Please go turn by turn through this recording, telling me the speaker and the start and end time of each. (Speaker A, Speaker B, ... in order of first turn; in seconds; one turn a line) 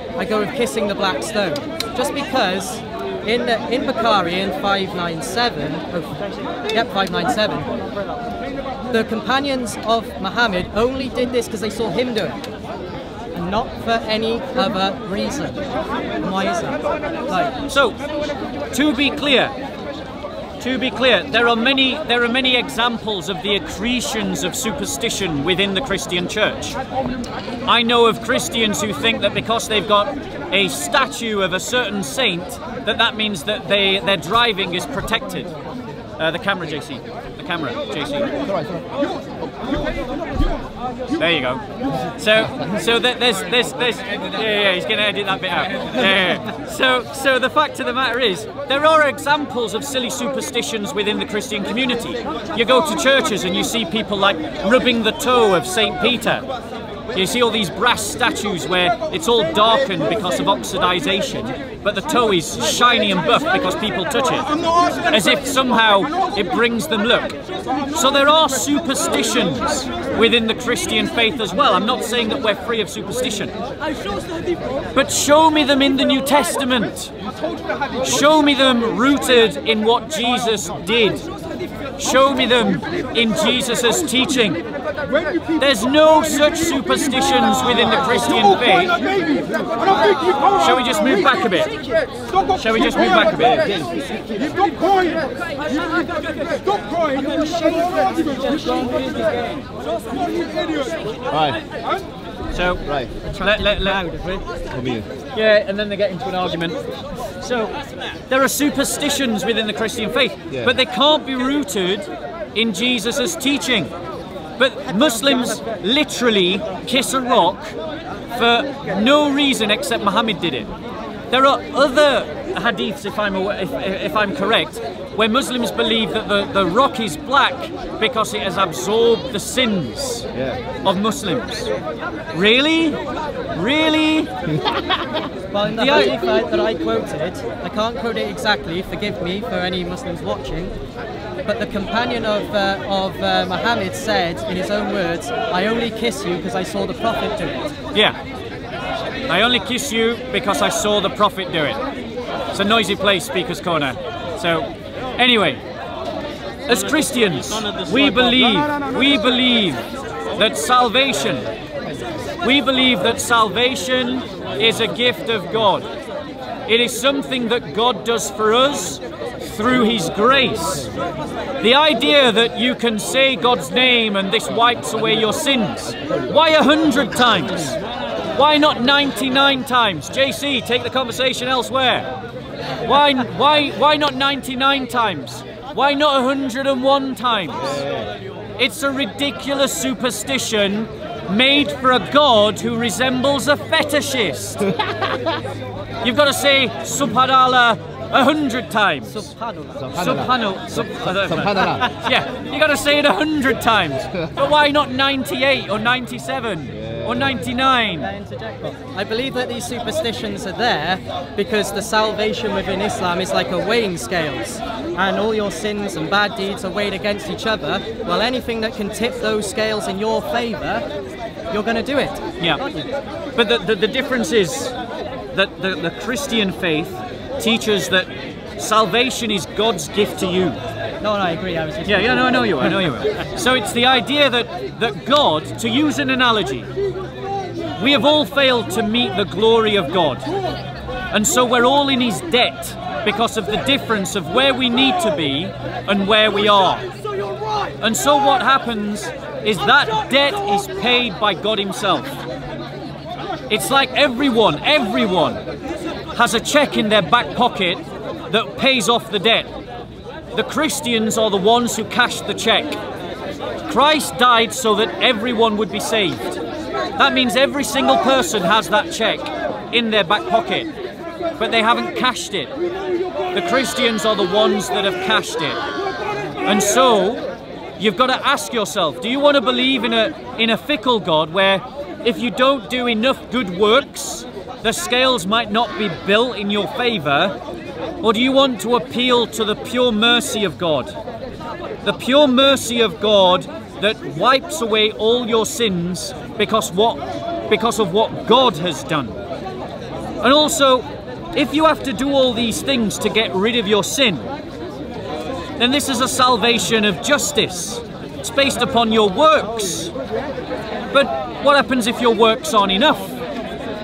Speaker A: 0.2-7.7
Speaker A: 8.9-12.4
Speaker A: 13.3-15.7
Speaker A: 16.2-17.5
Speaker B: 17.7-18.0
Speaker B: 18.7-19.5
Speaker B: 20.6-26.8
Speaker B: 27.6-35.6
Speaker B: 36.2-38.3
Speaker C: 38.4-40.0
Speaker B: 41.1-41.6
Speaker B: 42.1-56.5
Speaker B: 57.1-67.4
Speaker B: 67.9-73.5
Speaker B: 74.9-77.1
Speaker B: 78.0-81.2
Speaker B: 82.0-84.6
Speaker B: 85.6-89.0
Speaker B: 90.5-91.8
Speaker B: 92.5-93.7
Speaker C: 93.3-94.4
Speaker A: 97.2-99.0
Speaker C: 101.3-101.6
Speaker B: 102.5-102.9
Speaker C: 102.8-103.1
Speaker A: 103.2-104.4
Speaker B: 103.4-104.0
Speaker C: 104.7-105.1
Speaker B: 105.3-106.8
Speaker B: 107.4-113.9
Speaker B: 114.6-117.8
Speaker B: 118.3-120.7
Speaker B: 121.3-130.3
Speaker C: 130.3-130.8
Speaker B: 130.8-131.7
Speaker B: 132.3-133.0
Speaker B: 133.5-134.3
Speaker C: 134.5-135.3
Speaker A: 135.5-140.7
Speaker B: 135.7-136.1
Speaker A: 141.4-147.7
Speaker B: 149.3-151.8
Speaker B: 152.5-155.6
Speaker B: 156.7-161.5
Speaker B: 162.4-165.9
Speaker B: 166.7-170.9
Speaker B: 171.6-177.8
Speaker C: 176.0-176.3
Speaker B: 178.3-182.1
Speaker B: 182.8-187.8
Speaker C: 187.6-188.1
Speaker B: 188.6-194.7
Speaker C: 194.6-195.4
Speaker B: 196.0-199.3
Speaker A: 199.1-199.9
Speaker C: 199.8-201.9
Speaker B: 199.9-208.1
Speaker C: 206.7-207.4
Speaker A: 208.0-220.8
Speaker A: 221.5-222.9
Speaker B: 223.3-224.7
Speaker B: 225.3-230.6
Speaker A: 231.0-232.8
Speaker B: 231.8-236.7
Speaker B: 237.8-240.3
Speaker B: 241.1-246.9
Speaker B: 247.8-252.2
Speaker B: 253.5-255.4
Speaker B: 256.1-259.5
Speaker B: 260.3-262.8
Speaker B: 263.6-266.3
Speaker B: 267.0-270.7
Speaker B: 271.4-272.5
Speaker B: 273.3-275.6
Speaker B: 276.4-277.2
Speaker B: 277.8-287.3
Speaker B: 288.0-290.9
Speaker B: 291.8-299.2
Speaker B: 300.2-304.3
Speaker B: 305.6-309.9
Speaker B: 310.9-313.2